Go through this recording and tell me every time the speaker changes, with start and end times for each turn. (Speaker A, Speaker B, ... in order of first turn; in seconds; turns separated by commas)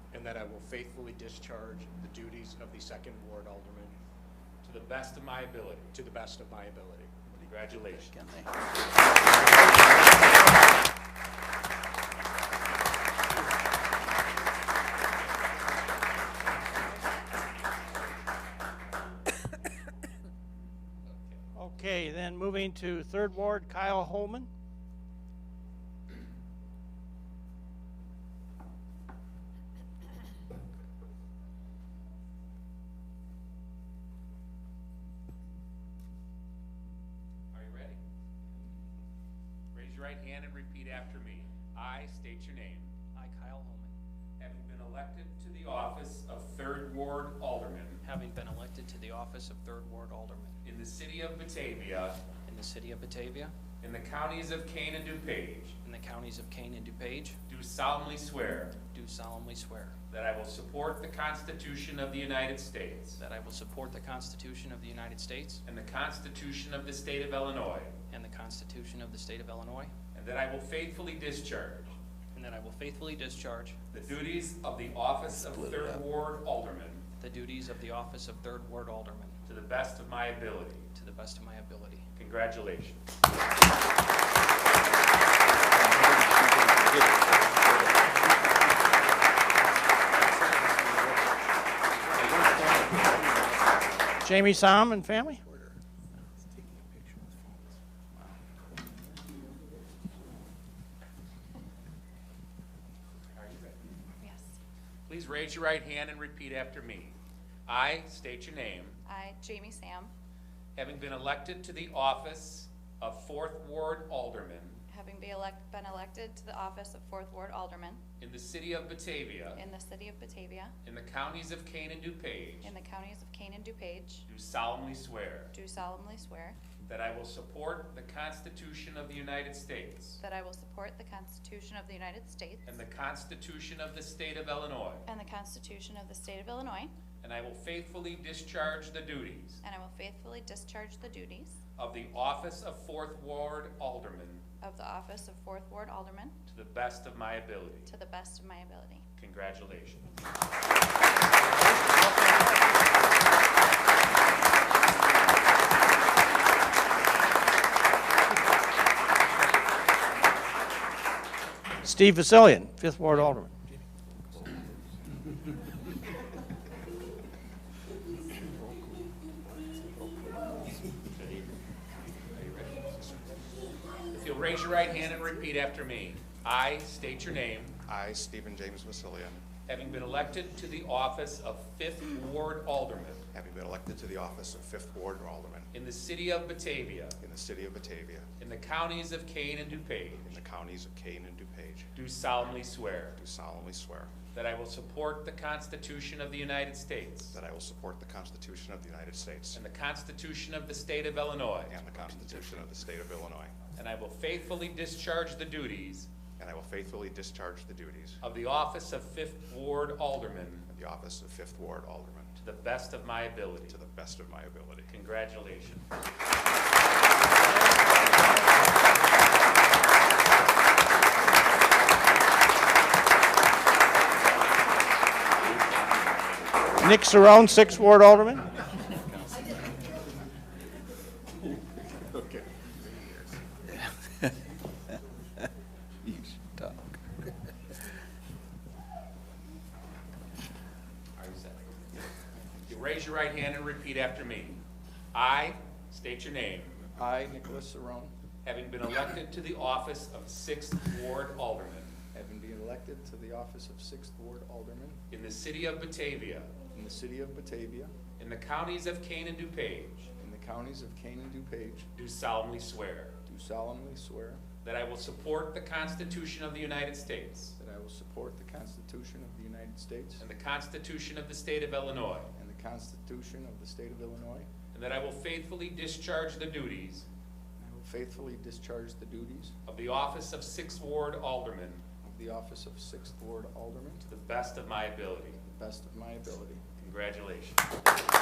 Speaker A: 0.1-4.0, Speaker B: 4.6-5.9, Speaker A: 5.9-7.3, Speaker B: 7.5-8.2, Speaker C: 21.6-24.5, Speaker B: 37.5-38.0, Speaker B: 39.7-42.9, Speaker D: 43.2-43.9, Speaker B: 44.4-48.0, Speaker D: 48.0-50.6, Speaker B: 50.6-52.2, Speaker D: 52.5-53.5, Speaker B: 53.8-55.8, Speaker D: 55.8-57.4, Speaker B: 57.5-58.8, Speaker D: 58.8-60.0, Speaker B: 60.1-63.2, Speaker D: 63.2-65.6, Speaker B: 65.7-68.0, Speaker D: 68.1-69.9, Speaker B: 70.1-72.0, Speaker D: 72.3-74.0, Speaker B: 73.9-77.1, Speaker D: 77.2-79.4, Speaker B: 79.5-80.9, Speaker D: 80.9-82.1, Speaker B: 82.2-83.0, Speaker E: 85.7-88.0, Speaker A: 90.4-91.2, Speaker A: 92.0-93.7, Speaker C: 94.2-95.4, Speaker A: 95.5-95.8, Speaker A: 96.5-97.4, Speaker B: 103.3-103.8, Speaker F: 104.2-104.5, Speaker B: 105.1-107.2, Speaker B: 107.7-109.0, Speaker F: 109.1-110.1, Speaker B: 110.8-114.8, Speaker F: 114.9-118.0, Speaker B: 118.2-119.6, Speaker F: 119.5-120.7, Speaker B: 120.8-122.7, Speaker F: 122.6-124.3, Speaker B: 124.3-125.5, Speaker F: 125.5-126.6, Speaker B: 126.8-130.2, Speaker F: 130.2-132.8, Speaker B: 132.7-135.1, Speaker F: 135.1-136.9, Speaker B: 137.2-139.6, Speaker F: 139.6-141.6, Speaker B: 141.8-144.4, Speaker F: 144.6-146.4, Speaker B: 146.5-147.9, Speaker F: 147.9-149.0, Speaker B: 149.2-150.1, Speaker C: 151.8-152.2, Speaker C: 161.8-163.5, Speaker B: 172.3-172.8, Speaker G: 172.8-173.3, Speaker B: 174.1-177.8, Speaker G: 177.8-179.4, Speaker B: 179.7-183.2, Speaker G: 183.3-185.7, Speaker B: 185.7-187.2, Speaker G: 187.2-188.3, Speaker B: 188.4-190.4, Speaker G: 190.2-191.9, Speaker B: 192.0-193.2, Speaker G: 193.2-194.1, Speaker B: 194.3-197.3, Speaker G: 197.3-199.6, Speaker B: 199.5-202.6, Speaker G: 201.7-203.6, Speaker B: 203.8-206.1, Speaker G: 206.4-208.2, Speaker B: 208.2-210.7, Speaker G: 210.7-212.4, Speaker B: 212.4-213.8, Speaker G: 213.7-214.9, Speaker B: 214.9-215.9, Speaker C: 226.8-228.5, Speaker E: 232.1-233.4, Speaker B: 241.2-241.8, Speaker B: 242.7-244.6, Speaker B: 245.1-246.8, Speaker E: 246.9-248.1, Speaker B: 248.4-251.9, Speaker E: 252.1-255.0, Speaker B: 255.1-256.5, Speaker E: 256.7-257.9, Speaker B: 258.2-260.1, Speaker E: 260.2-261.9, Speaker B: 261.9-263.1, Speaker E: 263.3-264.4, Speaker B: 264.6-267.6, Speaker E: 267.6-270.2, Speaker B: 270.2-272.3, Speaker E: 272.4-274.5, Speaker B: 274.7-277.1, Speaker E: 277.6-279.5, Speaker B: 279.7-281.8, Speaker E: 282.0-284.1, Speaker B: 284.1-285.4, Speaker E: 285.4-286.6, Speaker B: 286.8-287.6